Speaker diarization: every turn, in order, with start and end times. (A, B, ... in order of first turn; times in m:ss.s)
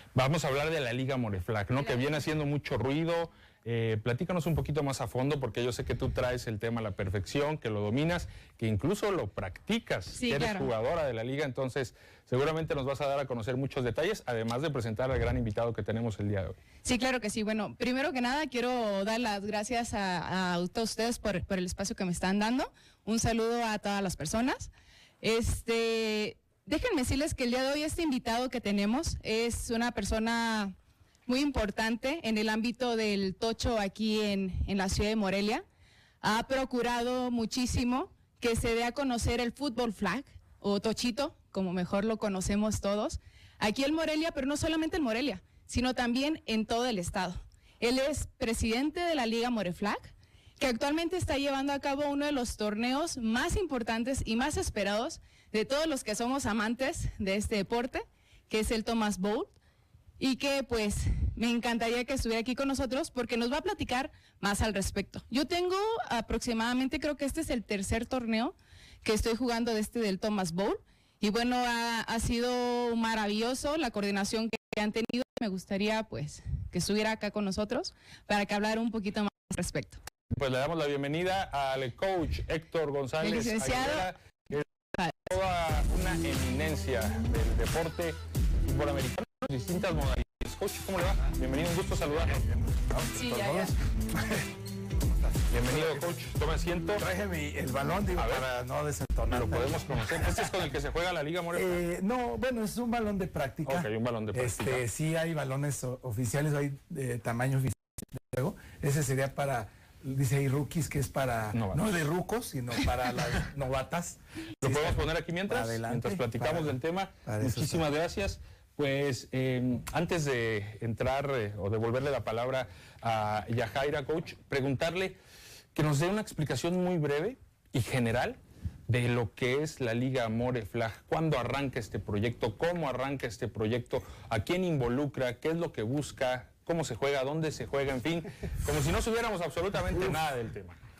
0:00.1-0:16.6 A
0:01.8-0:02.1 B
0:10.2-0:10.7 B
0:16.8-0:24.7 B
0:25.2-0:30.7 B
0:31.3-0:35.6 B
0:36.2-0:59.5 B
1:00.2-1:20.0 B
1:20.3-1:24.6 A
1:23.2-1:24.1 B
1:25.2-1:32.4 A
1:32.4-1:33.7 C
1:33.1-1:33.7 B
1:33.4-1:33.6 A
1:35.0-1:36.2 C
1:35.5-1:37.1 A
1:37.0-1:40.6 C
1:38.1-1:38.6 A
1:39.2-1:41.8 A
1:41.5-1:57.9 C
1:43.6-1:44.8 A
1:51.5-1:52.1 A
1:54.6-2:05.2 A
2:05.7-2:20.8 A
2:19.9-2:20.2 C